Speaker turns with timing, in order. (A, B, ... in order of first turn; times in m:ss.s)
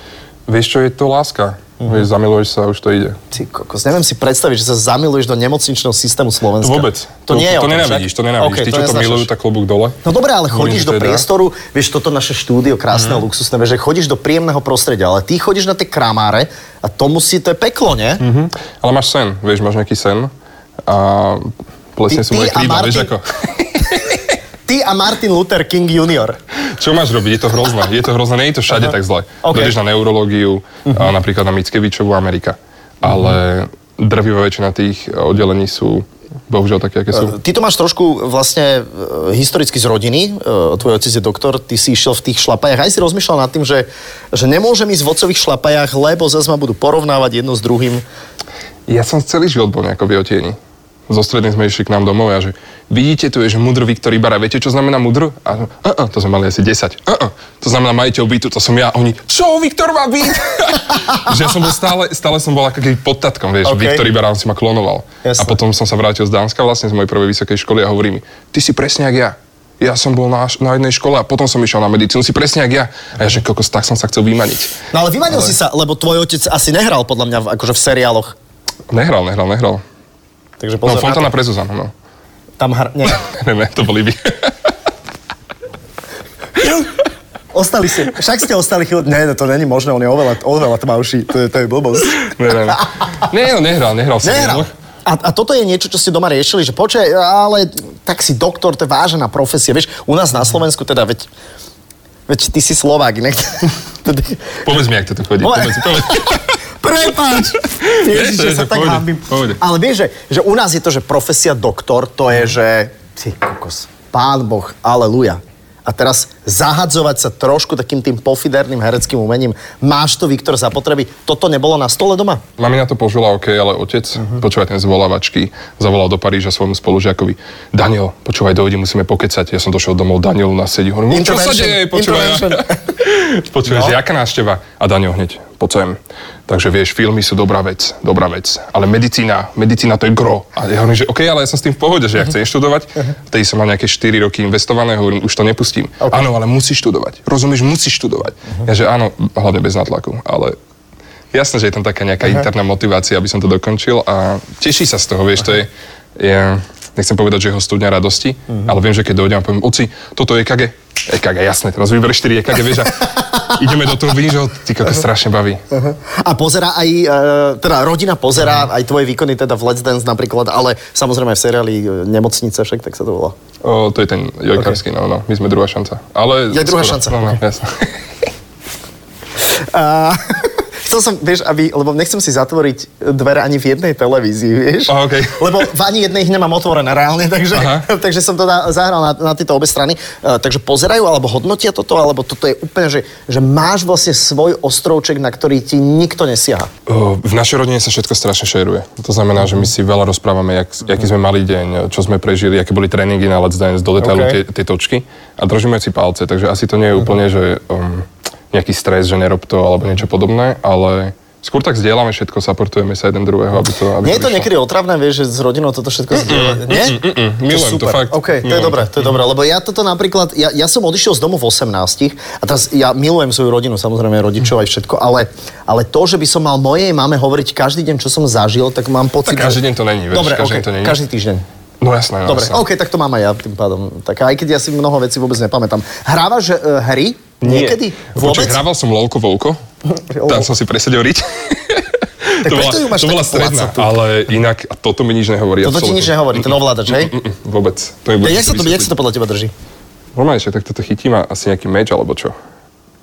0:00.5-0:03.2 A
0:03.3-0:09.3 B
0:06.6-0:10.0 A
0:10.0-0:18.2 B
0:10.5-0:11.2 A
0:12.9-0:13.2 A
0:18.2-0:20.3 A
0:20.8-0:24.2 A
0:22.1-0:23.1 B
0:24.7-0:26.4 B
0:26.7-0:37.4 A
0:29.4-0:29.8 B
0:37.1-0:48.0 B
0:48.9-1:14.8 A
1:03.6-1:04.0 B
1:05.2-1:05.6 B
1:14.9-1:18.3 B
1:18.9-1:19.8 A
1:20.6-1:21.3 B
1:20.8-1:21.9 A
1:22.6-1:23.2 B
1:23.0-1:24.7 A
1:27.5-1:33.2 B
1:32.2-1:34.7 A
1:34.2-1:41.3 B
1:42.3-1:44.6 B
1:44.6-1:46.5 A
1:45.4-2:02.4 B
1:47.8-1:49.6 A
2:02.6-2:30.6 A
2:11.1-2:12.8 B
2:13.7-2:14.0 B
2:31.3-2:45.6 A
2:45.7-2:53.3 B
2:53.6-2:58.0 A
2:56.5-2:57.4 B
2:59.6-3:16.7 B
3:04.9-3:05.6 A
3:07.5-3:07.9 A
3:16.8-3:34.5 A
3:24.0-3:24.4 B
3:34.0-3:49.6 B
3:36.1-3:39.1 A
3:49.2-3:51.0 A
3:50.1-3:51.4 B
3:51.8-3:52.6 A
3:52.2-3:58.6 B
3:57.4-3:59.6 A
3:59.9-4:00.5 B
4:00.2-4:08.9 A
4:02.4-4:04.0 B
4:05.6-4:07.1 B
4:08.2-4:09.5 B
4:10.1-4:12.4 A